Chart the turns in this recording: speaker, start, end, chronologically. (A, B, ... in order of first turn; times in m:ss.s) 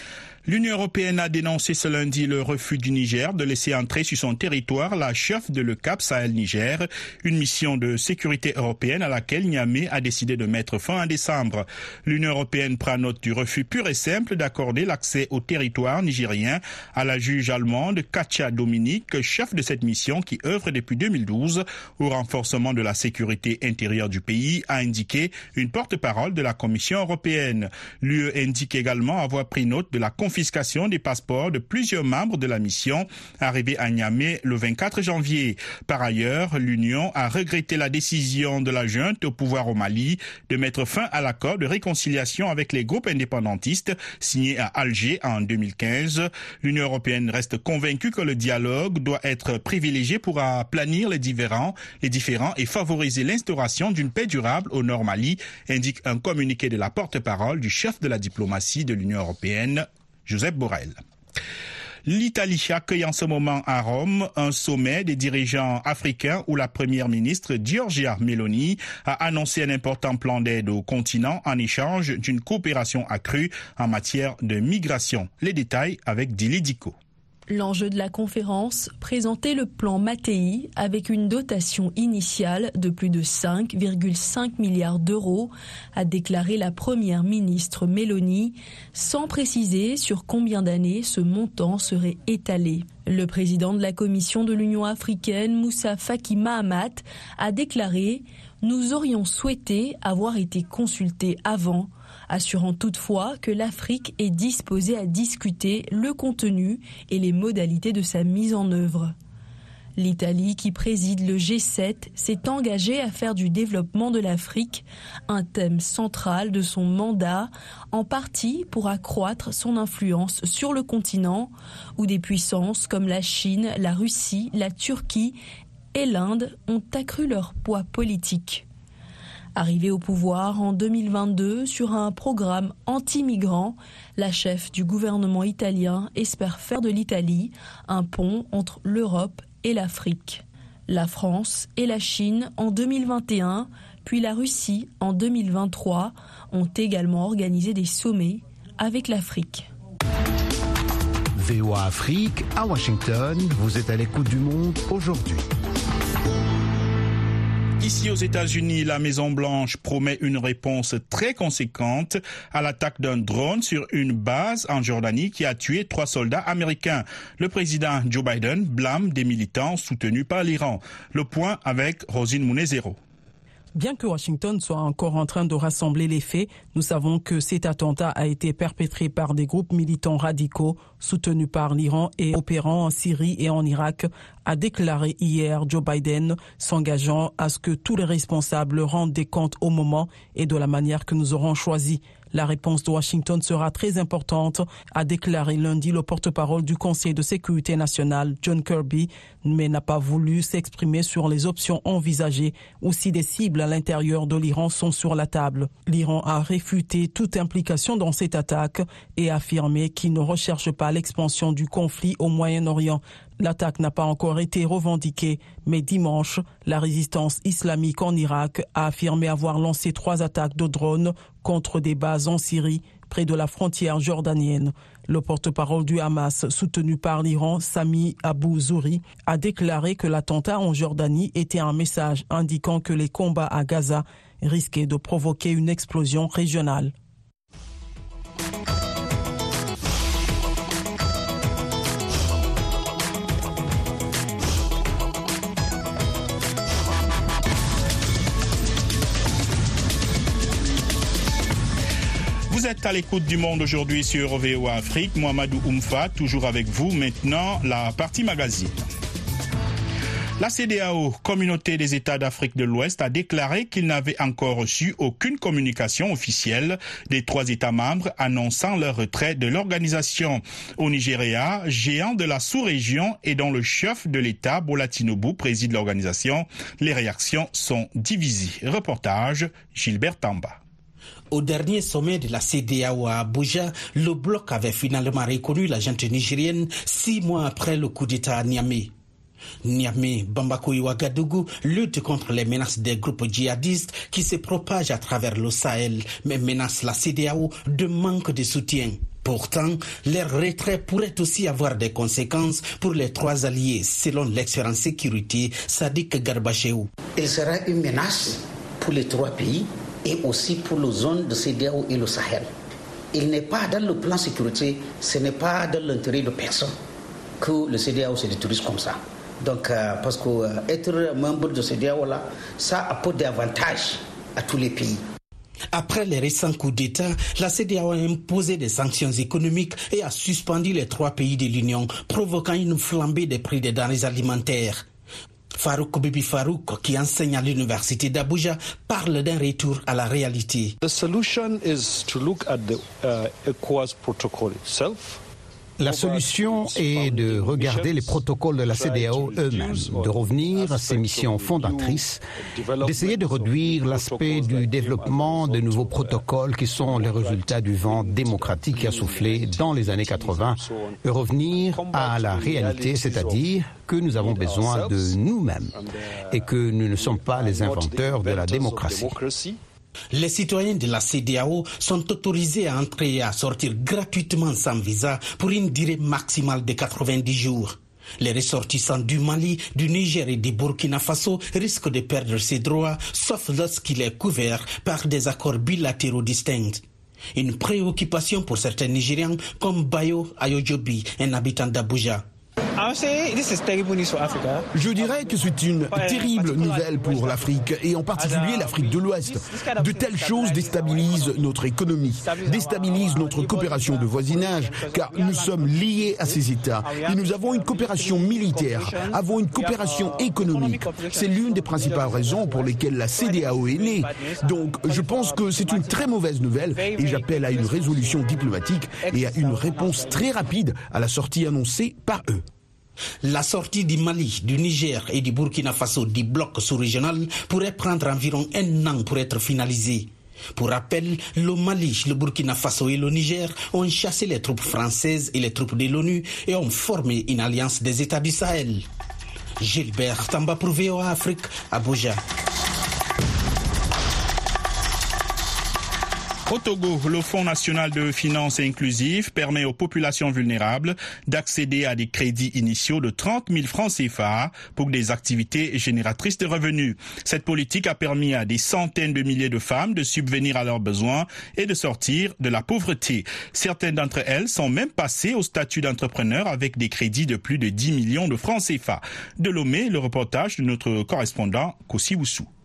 0:00.5-1:01.0 A
1:02.1-1:17.0 A
1:17.5-1:49.2 B
1:50.0-2:05.4 B
2:05.9-2:08.6 B
2:09.6-2:29.7 B
2:31.4-2:35.5 C
2:37.8-2:53.0 A
2:53.8-3:56.9 D
4:12.5-4:18.9 A
4:20.4-4:40.6 A
4:41.3-4:48.9 E
4:49.6-5:06.9 E
5:07.2-5:12.5 F
5:13.1-5:16.8 F
5:17.4-5:25.0 F
5:25.7-5:34.8 E
5:35.6-5:40.8 E
5:40.8-5:45.2 G
5:45.8-5:52.2 C
5:45.8-6:09.6 G
5:52.8-6:05.7 C
6:06.3-6:09.2 C
6:10.1-6:26.8 E
6:27.4-6:32.2 E
6:32.8-6:41.5 G
6:34.7-7:02.4 H
6:42.2-7:00.5 G
7:03.2-7:18.8 E
7:19.6-7:22.2 E
7:26.5-7:52.5 A